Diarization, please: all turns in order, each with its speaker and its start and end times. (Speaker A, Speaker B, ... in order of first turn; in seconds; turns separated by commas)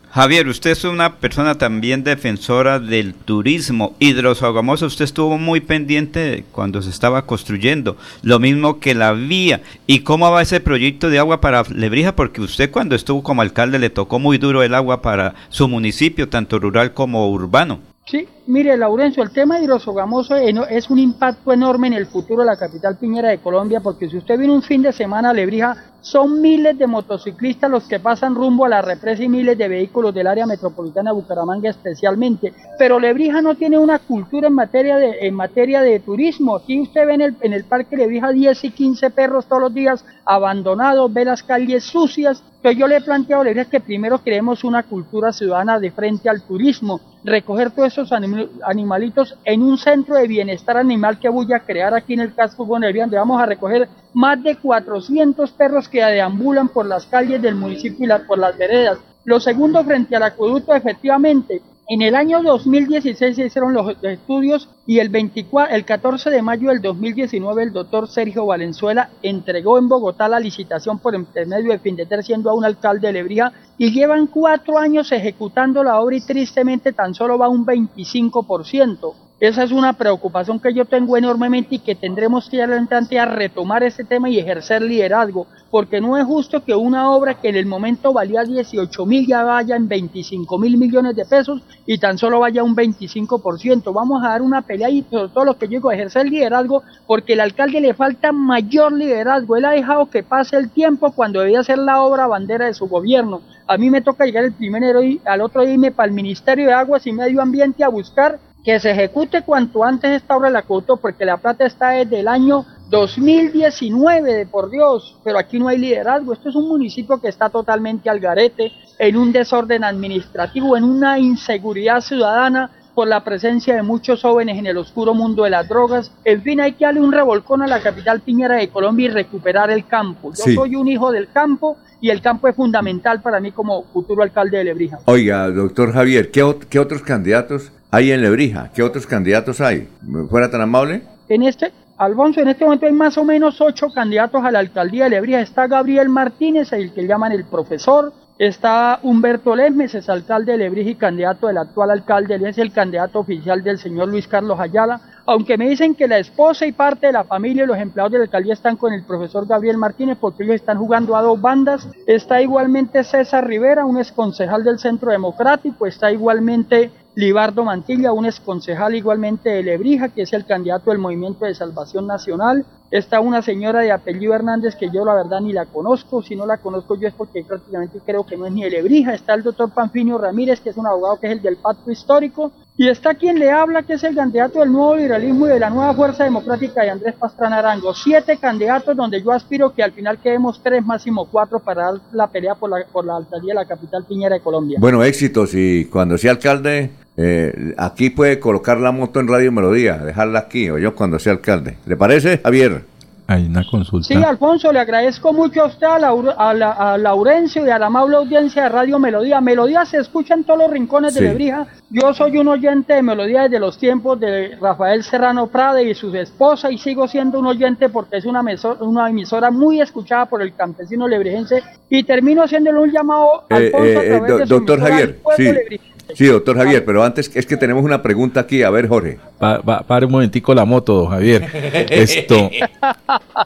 Speaker A: 0.1-17.8, Speaker B: 18.1-135.0, Speaker C: 130.3-130.7, Speaker C: 135.1-141.1, Speaker B: 141.3-194.8, Speaker C: 194.7-202.8, Speaker D: 203.3-204.3, Speaker B: 204.1-226.8, Speaker C: 211.1-211.4, Speaker C: 223.5-225.6, Speaker C: 226.1-229.2, Speaker D: 229.4-232.6, Speaker C: 231.6-232.6, Speaker B: 232.9-233.2